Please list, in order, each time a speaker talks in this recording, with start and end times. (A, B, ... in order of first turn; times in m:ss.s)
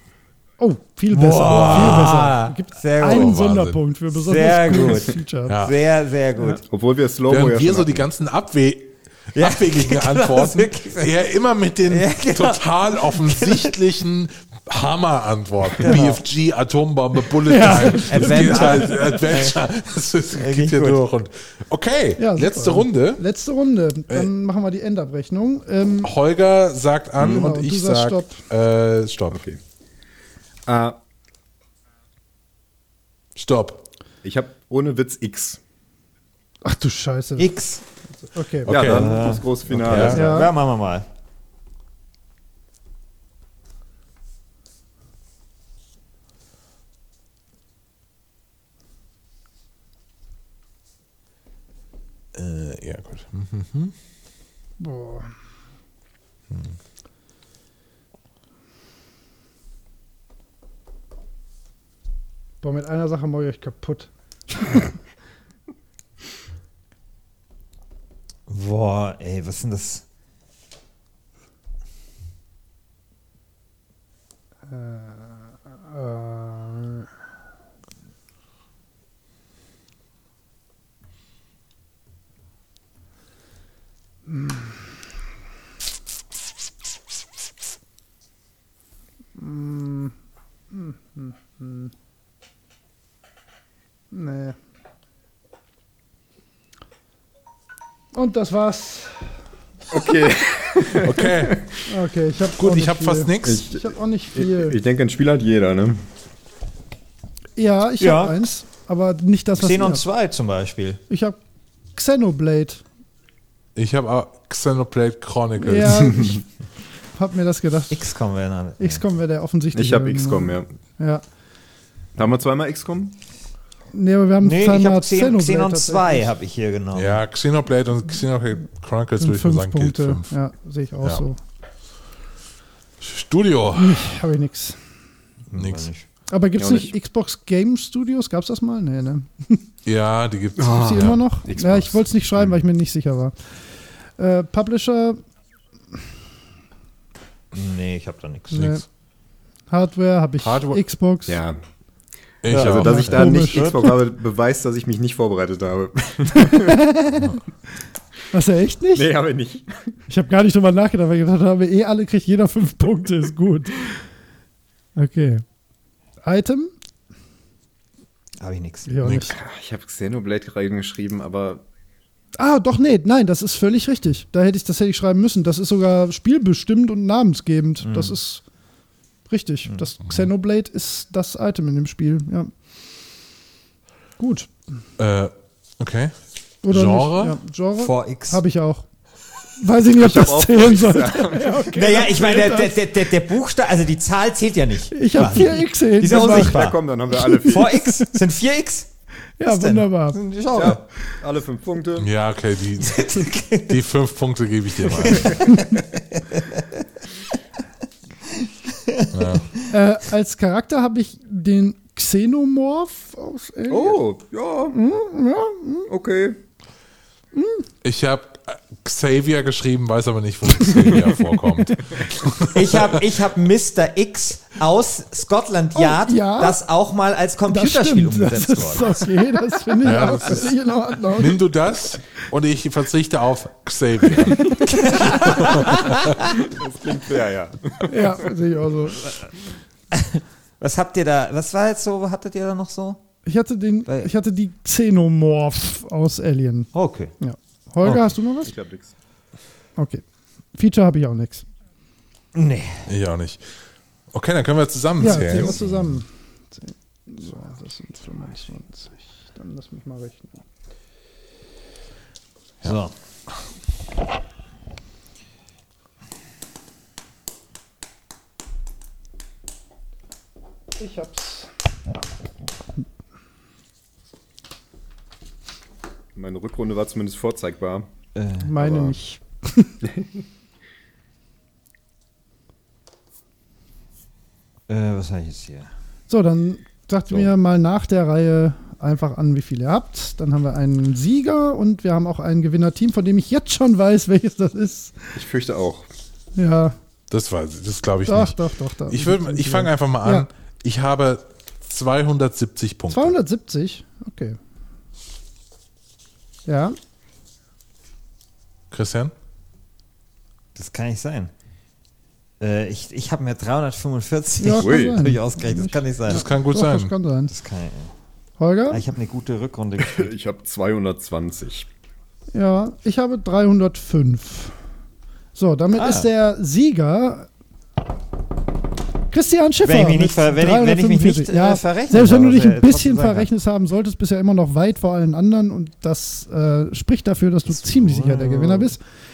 0:00.6-0:05.7 A
0:01.1-0:03.4 B
0:01.4-0:02.2 C
0:03.0-0:03.8 C
0:04.1-0:06.6 B
0:05.5-0:05.8 C
0:06.7-0:08.0 D
0:07.3-0:23.2 C
0:09.3-0:11.2 B
0:11.9-0:13.7 B
0:15.8-0:16.2 B
0:17.4-0:19.3 A
0:17.5-0:19.6 B
0:20.3-0:21.0 B
0:22.2-0:26.1 A
0:26.0-0:29.4 C
0:27.2-0:27.4 D
0:27.3-0:28.4 A
0:29.3-0:29.6 D
0:30.7-0:31.0 D
0:33.3-0:33.8 C
0:34.2-0:35.6 D
0:36.6-0:37.5 A
0:37.4-0:37.8 B
0:38.3-0:39.0 A
0:38.6-0:39.2 C
0:38.7-0:40.5 D
0:38.8-0:41.0 B
0:39.7-0:40.2 C
0:39.9-0:40.5 A
0:52.3-0:53.9 C
0:54.8-0:55.3 A
1:02.6-1:04.9 A
1:08.5-1:10.0 B
1:14.7-1:17.1 A
1:24.3-1:24.8 A
1:29.4-1:30.1 A
1:30.7-1:31.9 A
1:34.1-1:34.6 A
1:38.1-1:39.3 A
1:39.9-1:41.8 D
1:40.9-1:41.6 C
1:41.9-1:44.8 A
1:42.6-1:43.6 C
1:43.4-1:46.0 D
1:47.6-1:50.0 A
1:48.0-1:48.4 B
1:49.6-1:51.0 B
1:51.1-1:51.4 A
1:51.9-1:52.8 A
1:53.8-1:56.2 C
1:55.6-1:56.4 A
1:57.1-1:58.0 A
1:57.9-1:59.0 B
1:58.8-2:01.2 A
1:59.7-2:00.7 D
2:02.2-2:03.2 D
2:03.9-2:06.3 A
2:04.4-2:07.2 B
2:06.9-2:10.3 C
2:09.2-2:11.4 A
2:13.0-2:14.1 C
2:13.7-2:14.8 A
2:15.5-2:16.0 B
2:15.5-2:15.9 C
2:16.3-2:19.6 A
2:16.6-2:16.9 D
2:19.8-2:21.2 C
2:20.6-2:22.5 D
2:20.7-2:23.3 A
2:24.2-2:25.2 A
2:27.5-2:28.8 B
2:28.5-2:28.8 A
2:29.7-2:31.4 A
2:30.4-2:30.8 C
2:31.3-2:31.6 D
2:32.4-2:33.3 C
2:32.4-2:36.9 D
2:32.7-2:33.9 A
2:33.2-2:33.9 B
2:36.4-2:37.3 A
2:38.3-2:39.1 A
2:38.9-2:39.7 D
2:40.1-2:44.0 A
2:45.0-2:45.4 A
2:46.2-2:46.7 A
2:48.4-2:49.2 B
2:48.9-2:49.4 A
2:49.1-2:51.6 D
2:52.4-2:58.4 A
2:57.8-2:58.1 B
2:59.3-3:02.5 A
3:04.2-3:04.5 A
3:05.0-3:06.1 C
3:06.6-3:08.8 A
3:06.7-3:07.4 C
3:07.8-3:08.4 B
3:09.6-3:12.9 A
3:09.9-3:11.7 D
3:11.7-3:18.9 B
3:14.9-3:18.2 A
3:16.0-3:17.9 D
3:19.4-3:20.2 A
3:19.5-3:20.8 B
3:20.5-3:22.1 D
3:22.0-3:25.4 C
3:22.8-3:23.8 B
3:24.9-3:26.8 B
3:28.3-3:29.6 B
3:29.1-3:29.5 C
3:29.7-3:34.0 A
3:33.7-3:34.8 D
3:34.7-3:35.9 A
3:35.9-3:36.4 D
3:37.3-3:37.6 A
3:37.8-3:43.0 C
3:40.6-3:41.2 A
3:42.5-3:49.1 B
3:45.7-3:46.6 A
3:47.5-3:51.4 A
3:49.8-3:50.5 C
3:51.1-3:55.9 C
3:54.3-3:55.4 A
3:54.6-3:56.4 B
3:56.1-3:58.3 D
3:57.8-3:59.2 A
3:59.9-4:03.0 B
4:03.2-4:08.5 A
4:06.7-4:07.1 B
4:08.4-4:08.9 D
4:09.8-4:10.0 A
4:10.5-4:11.4 A
4:12.3-4:12.8 B
4:12.9-4:13.4 C
4:14.1-4:15.6 C
4:15.0-4:20.4 A
4:22.6-4:22.9 B
4:30.8-4:31.5 A
4:36.2-4:37.9 D
4:38.2-4:38.5 B
4:38.4-4:39.8 A
4:38.6-4:38.9 D
4:44.7-4:45.7 B
4:46.1-4:55.1 A
4:55.1-4:55.9 D
4:56.3-4:56.8 A
4:57.1-4:58.4 C
4:58.0-5:00.3 A
4:58.9-5:03.2 C
5:02.9-5:04.4 A
5:06.5-5:06.8 A
5:08.7-5:09.1 C
5:10.6-5:11.3 B
5:12.4-5:16.2 B
5:14.4-5:17.3 A
5:14.6-5:15.0 D
5:16.1-5:16.9 C
5:17.3-5:17.9 B
5:18.4-5:18.8 A
5:18.7-5:20.1 B
5:19.8-5:21.7 D
5:22.3-5:24.5 A
5:25.3-5:27.3 A
5:25.7-5:26.1 B
5:29.1-5:38.8 A
5:29.6-5:33.3 B
5:37.5-5:38.7 B